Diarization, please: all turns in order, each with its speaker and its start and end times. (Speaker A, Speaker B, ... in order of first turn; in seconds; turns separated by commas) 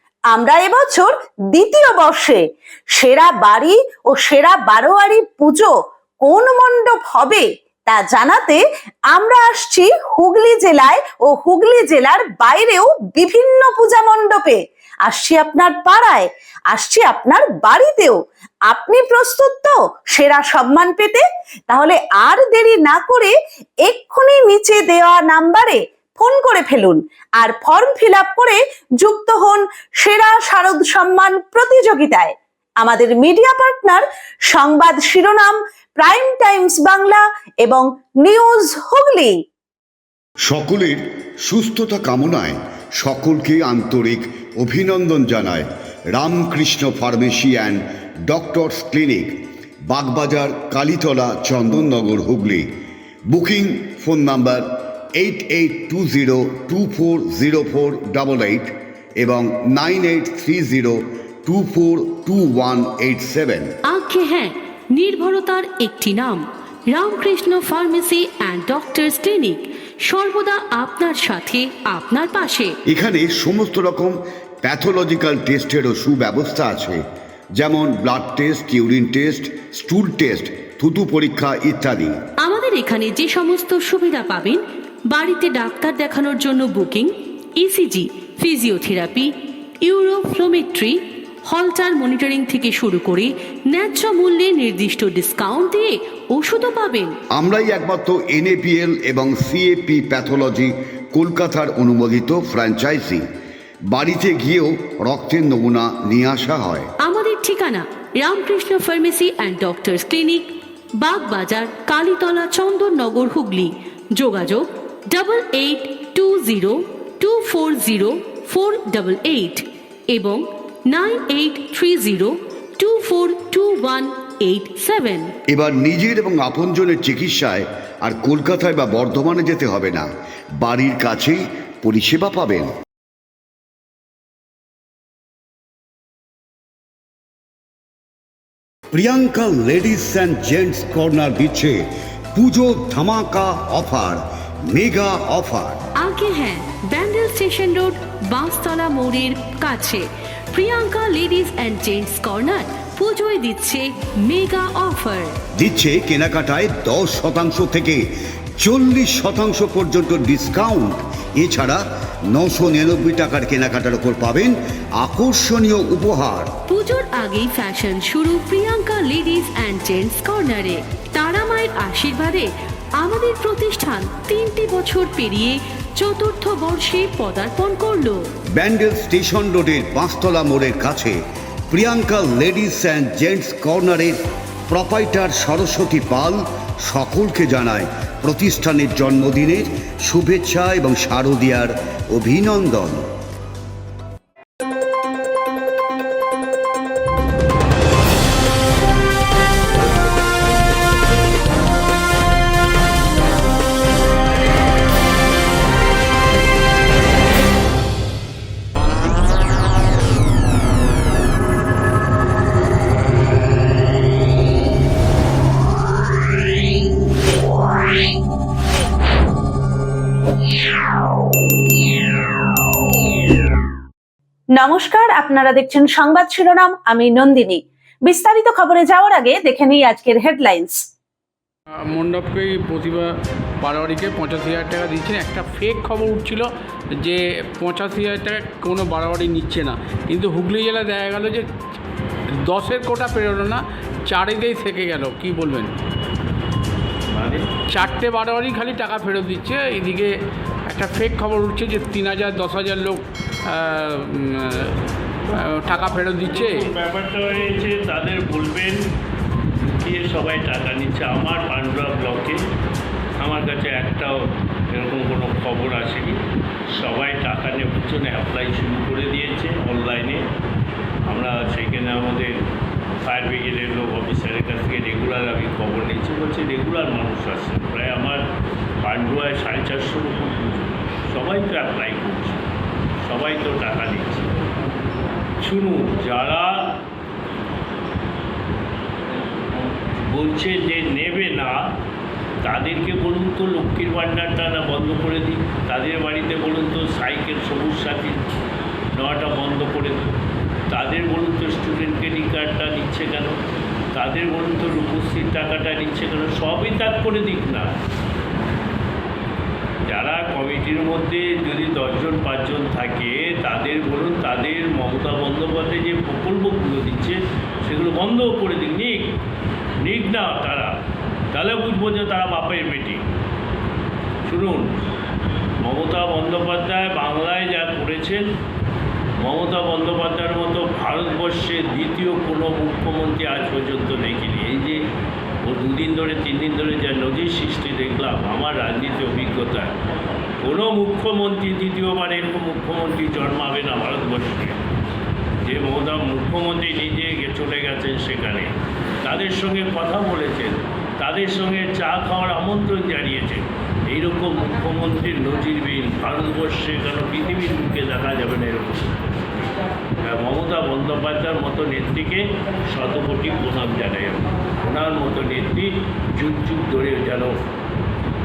Speaker A: 0.3-2.4, Speaker A: 3.0-18.2, Speaker A: 18.7-23.3, Speaker A: 23.9-39.4, Speaker B: 40.5-52.7, Speaker B: 53.3-63.7, Speaker C: 63.8-72.8, Speaker B: 72.9-77.0, Speaker B: 77.6-82.2, Speaker C: 82.4-89.3, Speaker C: 89.8-97.1, Speaker B: 97.3-103.2, Speaker B: 103.9-106.9, Speaker C: 107.0-125.3, Speaker B: 125.5-130.1, Speaker B: 130.6-132.7, Speaker B: 138.9-145.8, Speaker C: 146.0-155.3, Speaker B: 155.6-158.0, Speaker B: 158.6-166.5, Speaker C: 166.7-178.2, Speaker B: 178.6-181.2, Speaker B: 181.7-184.2, Speaker B: 184.7-193.1, Speaker A: 224.6-230.8, Speaker D: 231.8-236.5, Speaker D: 237.0-241.5, Speaker D: 242.4-245.7, Speaker E: 247.1-247.5, Speaker D: 247.7-250.1, Speaker D: 250.7-254.8, Speaker D: 255.3-256.7, Speaker E: 256.3-258.8, Speaker E: 259.6-262.4, Speaker E: 263.2-264.1, Speaker E: 264.7-266.2, Speaker E: 266.8-270.2, Speaker E: 271.1-272.3, Speaker E: 273.0-278.2, Speaker E: 278.8-282.5, Speaker E: 283.0-284.3, Speaker E: 285.4-286.8, Speaker E: 290.0-291.6, Speaker E: 292.4-298.2, Speaker E: 298.9-300.1, Speaker E: 300.7-303.3, Speaker E: 303.9-307.7, Speaker E: 309.9-319.1, Speaker E: 319.8-320.7, Speaker E: 321.3-323.0, Speaker E: 324.3-324.8, Speaker E: 325.6-328.2, Speaker E: 329.2-334.8, Speaker E: 335.4-339.8, Speaker E: 340.4-344.6, Speaker E: 345.4-348.5, Speaker E: 349.0-359.0, Speaker E: 360.0-367.4